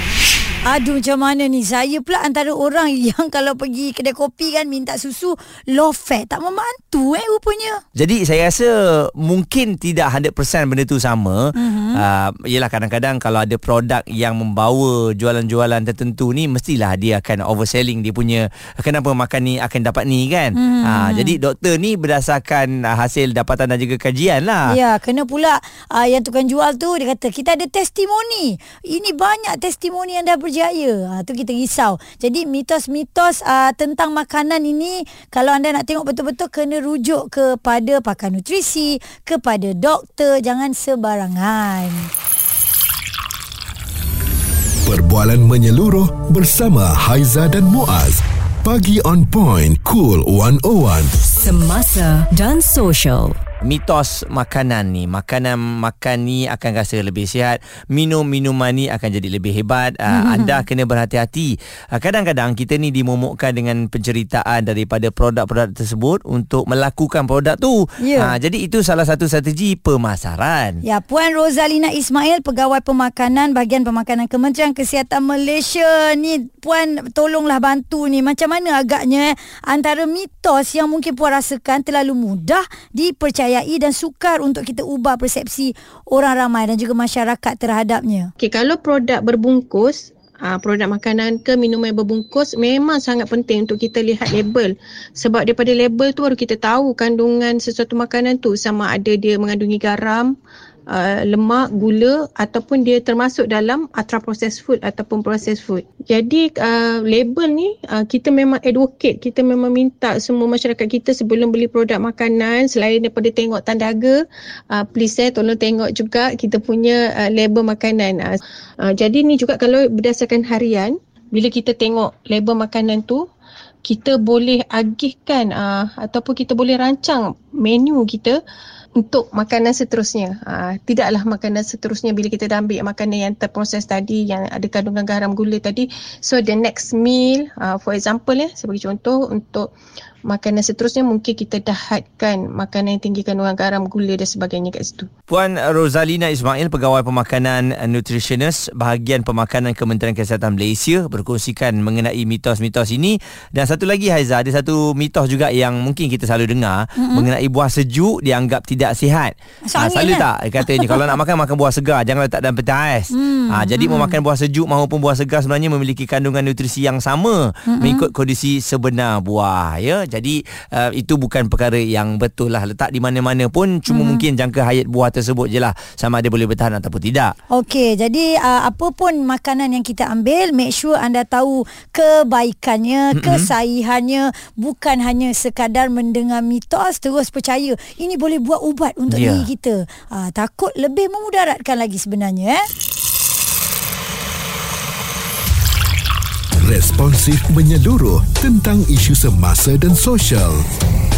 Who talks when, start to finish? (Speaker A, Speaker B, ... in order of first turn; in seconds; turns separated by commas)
Speaker A: 0.6-7.8, Speaker B: 8.0-24.7, Speaker A: 11.5-12.0, Speaker A: 20.5-21.4, Speaker A: 24.7-42.1, Speaker C: 44.8-51.1, Speaker D: 51.3-53.4, Speaker B: 53.6-70.8, Speaker A: 60.1-60.6, Speaker A: 68.0-68.3, Speaker A: 70.8-88.3, Speaker E: 88.4-100.3, Speaker E: 100.9-114.2, Speaker E: 114.7-123.2, Speaker E: 123.8-128.4, Speaker E: 129.0-139.7, Speaker E: 140.3-145.1, Speaker B: 145.3-177.3, Speaker A: 157.0-157.3, Speaker A: 159.6-161.1, Speaker A: 163.1-164.2, Speaker A: 167.7-168.1, Speaker A: 173.9-174.2, Speaker A: 177.5-192.7, Speaker B: 183.1-183.5, Speaker B: 189.1-189.5, Speaker C: 196.6-200.6